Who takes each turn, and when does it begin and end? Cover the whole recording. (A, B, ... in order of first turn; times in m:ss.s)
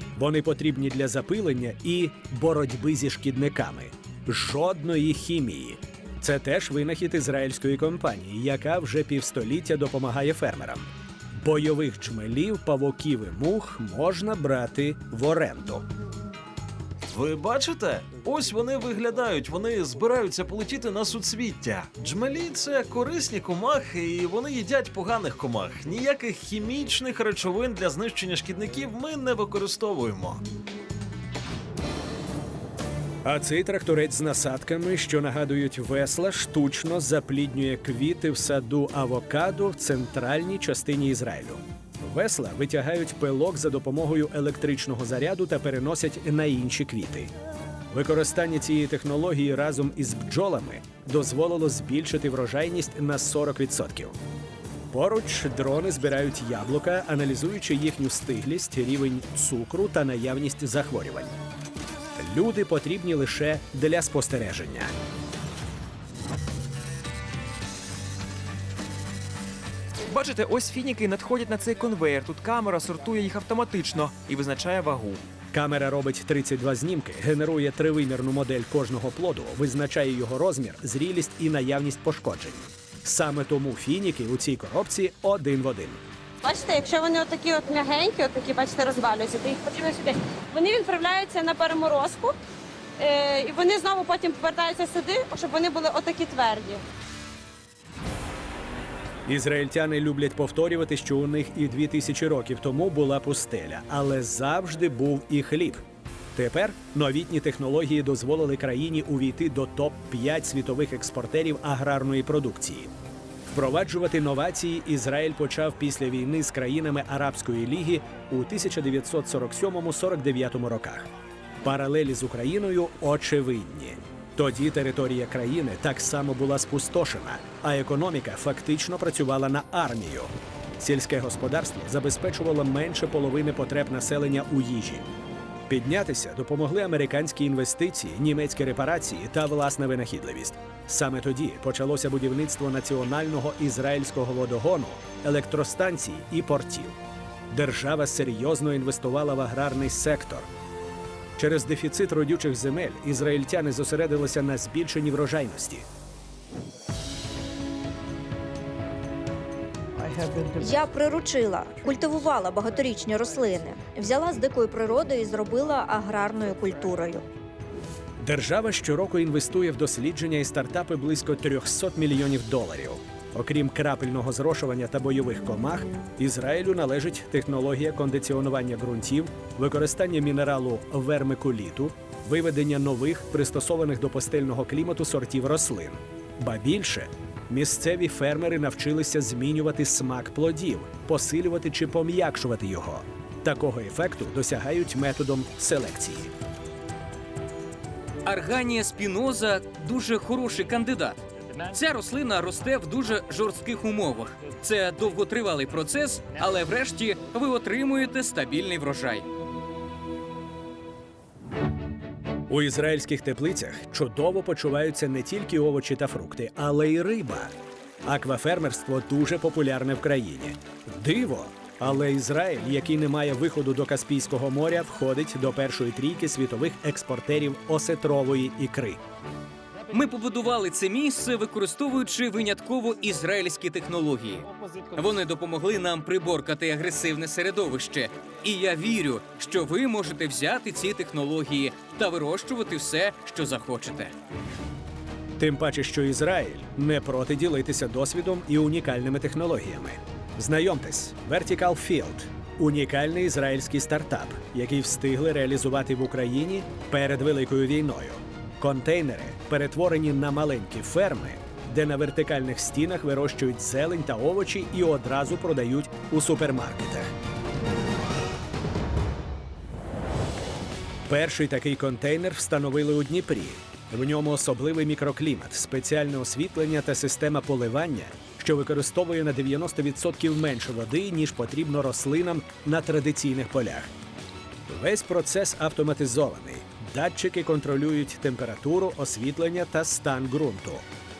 0:00.2-0:15.8 A
0:17.1-0:30.4 B
0:33.2-0:47.3 A
0:47.9-0:54.2 A
0:54.9-1:01.3 A
1:02.2-1:04.9 A
1:10.1-1:15.2 C
1:15.5-1:26.0 A
1:26.4-1:32.4 D
1:33.0-1:36.8 D
1:39.3-1:45.8 A
1:46.3-1:52.9 A
1:53.5-2:01.1 A
2:01.6-2:15.1 A
2:15.7-2:27.0 A
2:27.5-2:30.5 A
2:31.4-2:35.8 A
2:40.6-2:47.2 E
2:48.2-3:16.3 A
3:18.2-3:29.2 F
3:32.5-3:37.5 A
3:38.0-3:49.0 A
3:49.9-4:04.1 F
4:05.4-4:27.1 A
4:31.1-4:43.9 A
4:44.7-4:50.8 A